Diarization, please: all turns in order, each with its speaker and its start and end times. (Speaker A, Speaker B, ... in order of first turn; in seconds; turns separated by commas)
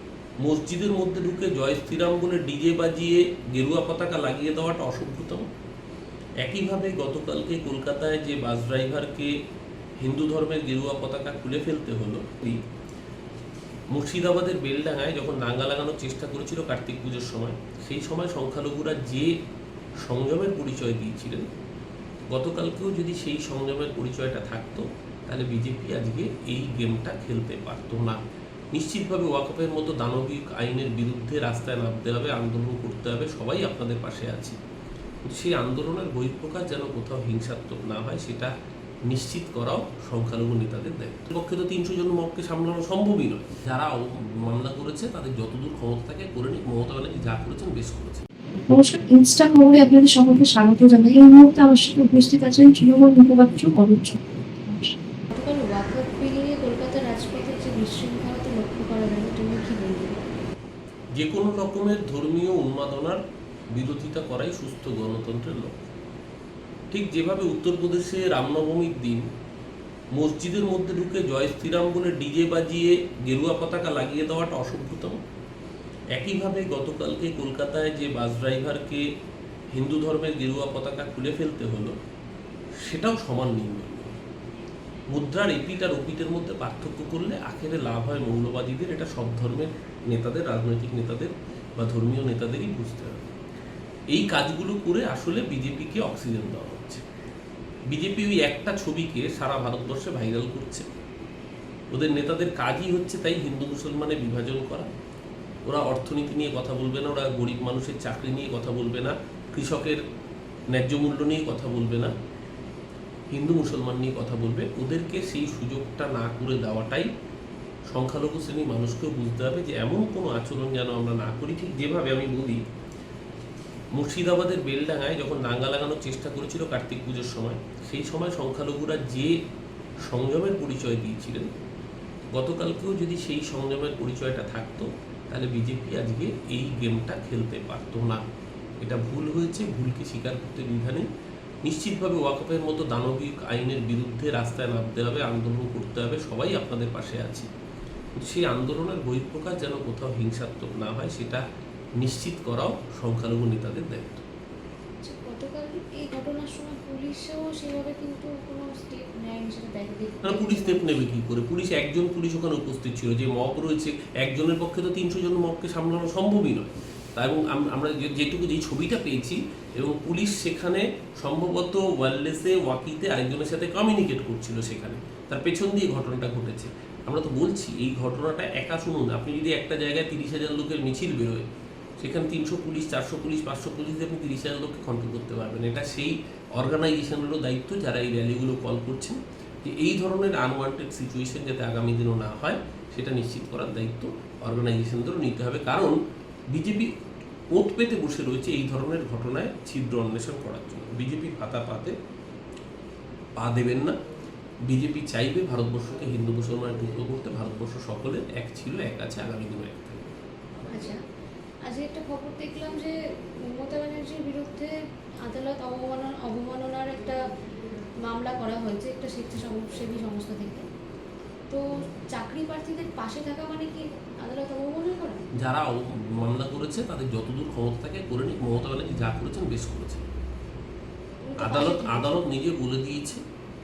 Speaker A: 0.4-5.5, Speaker A: 6.4-9.3, Speaker A: 10.0-12.6, Speaker A: 13.9-19.3, Speaker A: 20.0-21.5, Speaker A: 22.3-28.2, Speaker A: 28.7-34.6, Speaker A: 35.2-38.5, Speaker A: 39.1-48.3, Speaker B: 48.7-54.9, Speaker C: 55.3-60.3, Speaker A: 61.2-63.2, Speaker A: 63.7-65.9, Speaker A: 66.9-69.2, Speaker A: 70.2-75.2, Speaker A: 76.2-79.0, Speaker A: 79.7-82.0, Speaker A: 82.8-84.2, Speaker A: 85.1-93.2, Speaker A: 94.1-97.0, Speaker A: 97.9-100.9, Speaker A: 101.9-104.9, Speaker A: 105.7-110.0, Speaker A: 110.7-112.1, Speaker A: 113.3-117.1, Speaker A: 117.9-122.6, Speaker A: 124.0-129.3, Speaker A: 130.1-131.5, Speaker A: 132.3-138.2, Speaker A: 138.8-141.1, Speaker A: 141.7-147.5, Speaker A: 148.2-151.4, Speaker A: 152.0-154.2, Speaker C: 155.0-161.1, Speaker A: 160.2-181.5, Speaker A: 182.0-196.0, Speaker A: 196.5-196.9, Speaker A: 197.5-201.9, Speaker A: 203.4-204.0, Speaker A: 204.7-210.1, Speaker C: 210.7-211.0, Speaker C: 211.7-214.7, Speaker C: 215.2-217.2, Speaker C: 218.1-220.7, Speaker C: 221.5-225.2, Speaker A: 225.4-230.0, Speaker C: 231.2-232.2, Speaker A: 231.4-233.2